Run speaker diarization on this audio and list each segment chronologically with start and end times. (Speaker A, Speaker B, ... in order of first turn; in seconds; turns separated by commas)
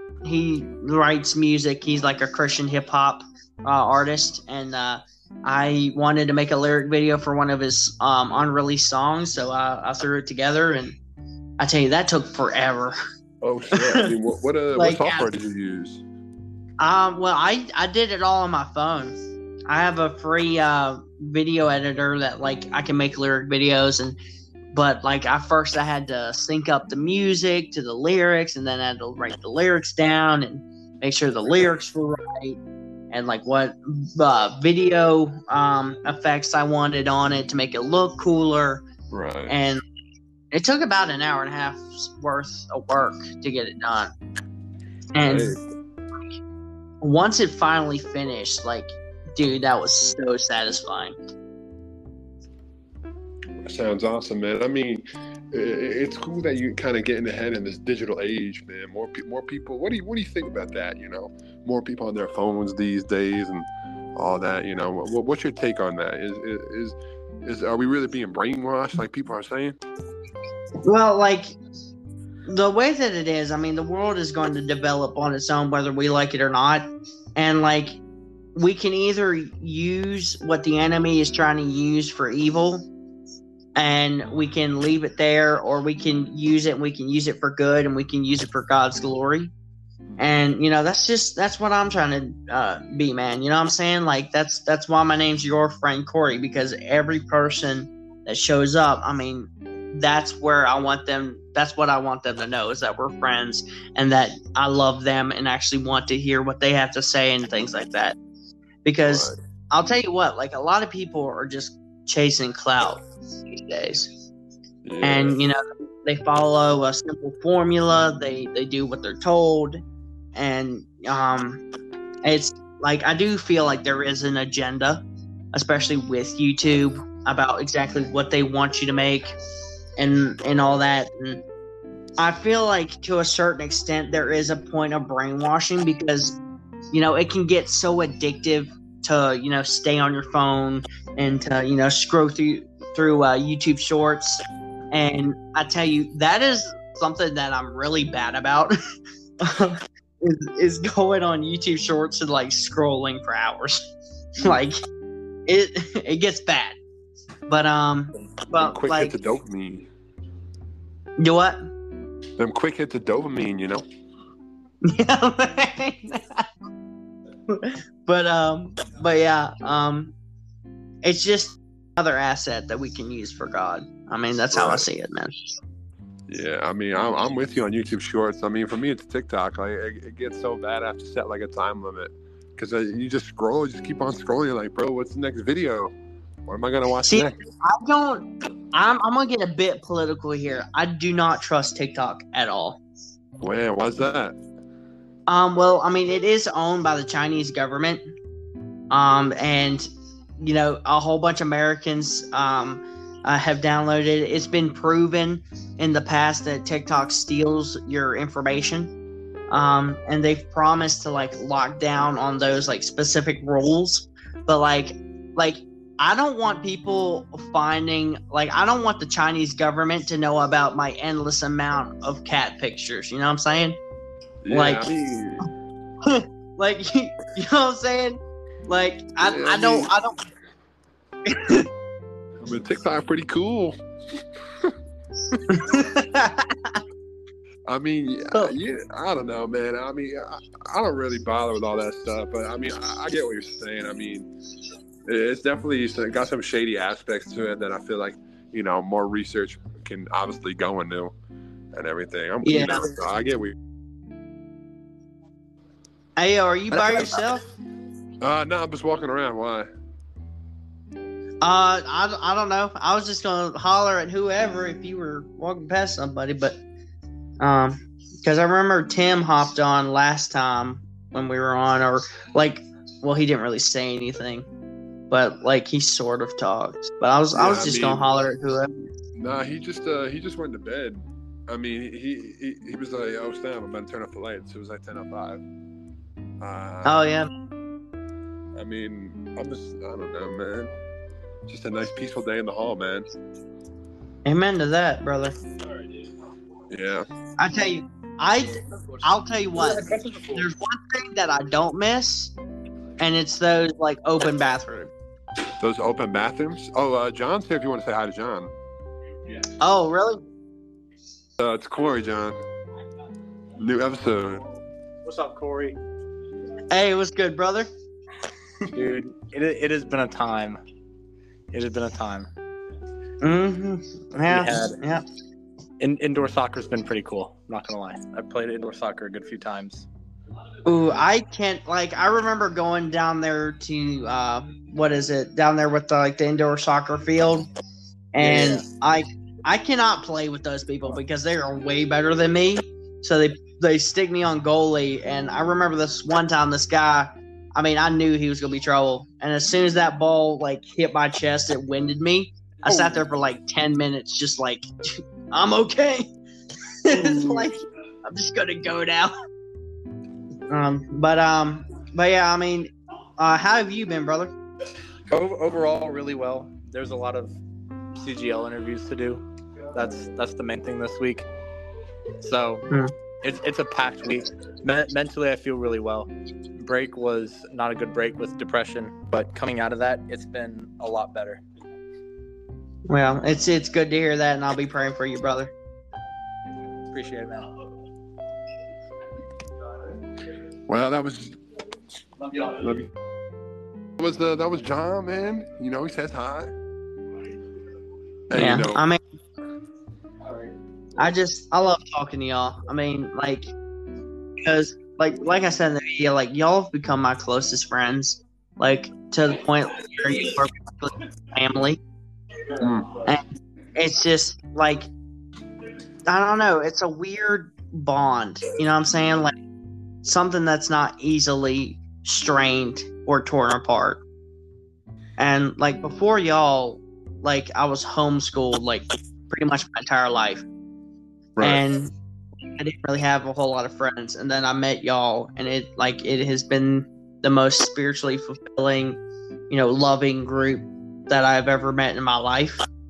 Speaker A: 0.2-11.0, Speaker A: 11.6-12.9, Speaker B: 13.4-16.0, Speaker A: 13.7-14.1, Speaker A: 14.8-15.3, Speaker A: 16.8-19.1, Speaker A: 19.7-24.2, Speaker A: 24.7-32.6, Speaker A: 33.1-38.8, Speaker B: 39.1-39.5, Speaker A: 39.5-39.8, Speaker A: 40.5-44.1, Speaker A: 45.1-45.6, Speaker B: 45.2-45.6, Speaker A: 47.0-51.1, Speaker B: 53.6-69.8, Speaker A: 70.8-71.6, Speaker A: 72.5-78.0, Speaker A: 78.5-82.9, Speaker A: 83.8-89.5, Speaker A: 90.2-108.2, Speaker A: 108.8-114.1, Speaker B: 109.0-109.4, Speaker B: 114.8-115.4, Speaker A: 115.0-119.8, Speaker A: 120.3-121.6, Speaker A: 122.2-125.0, Speaker A: 125.5-129.3, Speaker A: 130.0-131.4, Speaker A: 132.2-136.4, Speaker A: 136.9-148.8, Speaker A: 149.4-154.8, Speaker A: 155.5-156.8, Speaker A: 157.5-159.1, Speaker B: 158.5-159.9, Speaker A: 161.2-161.7, Speaker B: 162.4-163.8, Speaker A: 164.8-166.5, Speaker A: 167.5-170.1, Speaker A: 171.0-175.3, Speaker B: 174.5-174.9, Speaker B: 176.3-185.9, Speaker B: 186.5-187.4, Speaker A: 187.1-192.8, Speaker B: 193.4-194.4, Speaker A: 195.3-198.0, Speaker A: 198.9-199.9, Speaker A: 200.4-208.9, Speaker A: 209.5-223.8, Speaker B: 224.4-225.5, Speaker A: 224.5-224.8, Speaker A: 226.0-230.2, Speaker B: 229.2-229.9, Speaker A: 231.2-231.7, Speaker B: 232.4-233.8, Speaker A: 235.4-236.8, Speaker B: 237.7-244.3, Speaker B: 245.0-251.1, Speaker B: 251.7-253.6, Speaker A: 252.4-252.9, Speaker A: 256.2-257.4, Speaker B: 256.7-257.1, Speaker B: 258.2-259.7, Speaker A: 261.4-266.6, Speaker A: 267.4-274.4, Speaker A: 275.1-278.9, Speaker B: 277.3-278.0, Speaker B: 279.1-285.4, Speaker B: 286.4-287.1, Speaker A: 286.8-287.3, Speaker B: 288.6-290.7, Speaker B: 291.5-293.1, Speaker A: 294.2-295.3, Speaker B: 296.7-297.1, Speaker A: 297.4-302.3, Speaker C: 299.7-300.3, Speaker A: 303.0-304.9, Speaker B: 305.6-308.5, Speaker A: 309.6-310.2, Speaker B: 311.4-312.4, Speaker B: 313.6-314.4, Speaker C: 315.0-315.8, Speaker A: 316.7-317.7, Speaker C: 318.7-320.6, Speaker C: 321.5-322.3, Speaker A: 323.2-325.0, Speaker C: 324.2-324.8, Speaker C: 325.8-329.9, Speaker A: 330.6-337.5, Speaker A: 338.1-356.1, Speaker C: 338.2-338.6, Speaker B: 352.7-352.9, Speaker A: 356.8-359.1, Speaker B: 356.9-357.5, Speaker A: 360.5-364.3, Speaker C: 365.1-367.4, Speaker C: 367.9-369.2, Speaker C: 369.7-371.2, Speaker C: 372.2-372.7, Speaker C: 373.2-381.4, Speaker A: 382.9-385.5, Speaker C: 386.9-387.5, Speaker B: 390.7-391.4, Speaker B: 392.6-392.9, Speaker B: 394.0-396.5, Speaker B: 398.3-398.8, Speaker A: 398.3-399.0, Speaker A: 401.0-403.5, Speaker A: 404.4-411.8, Speaker B: 412.6-413.0, Speaker A: 413.8-414.9, Speaker A: 416.1-419.3, Speaker A: 420.0-424.0, Speaker A: 425.2-430.4, Speaker B: 431.4-431.6, Speaker A: 431.4-431.9, Speaker A: 432.5-442.6